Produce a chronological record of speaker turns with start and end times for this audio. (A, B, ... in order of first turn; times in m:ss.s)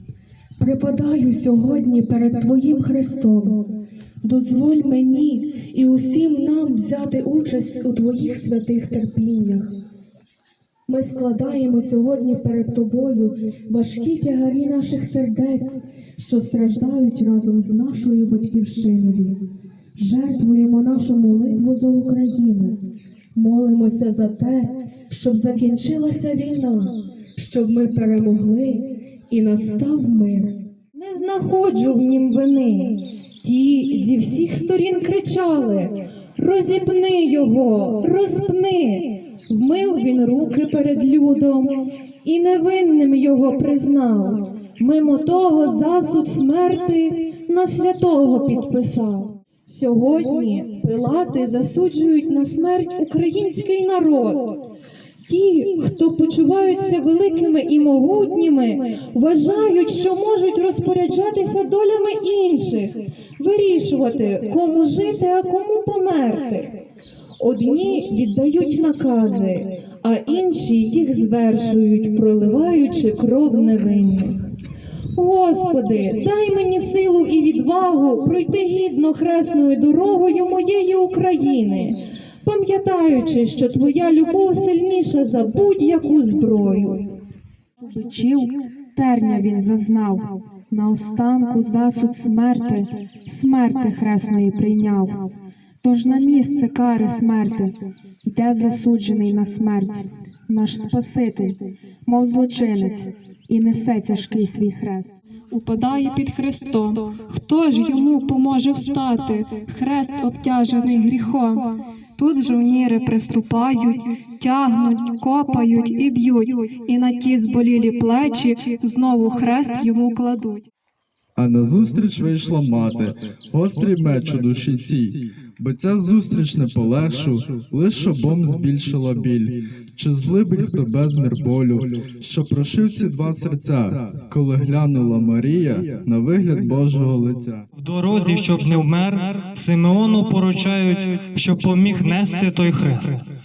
0:00.6-0:03.6 A
0:04.2-0:09.8 A
0:10.9-0:19.4 A
0:20.0-0:22.8 A
0:23.4-0:30.6 A
0:30.9-0:54.6 B
0:55.3-1:06.8 B
1:07.4-1:14.4 B
1:15.1-1:27.1 B
1:27.9-1:35.2 C
1:35.8-1:45.1 C
1:45.5-2:00.7 D
2:01.4-2:17.6 E
2:17.8-2:23.2 F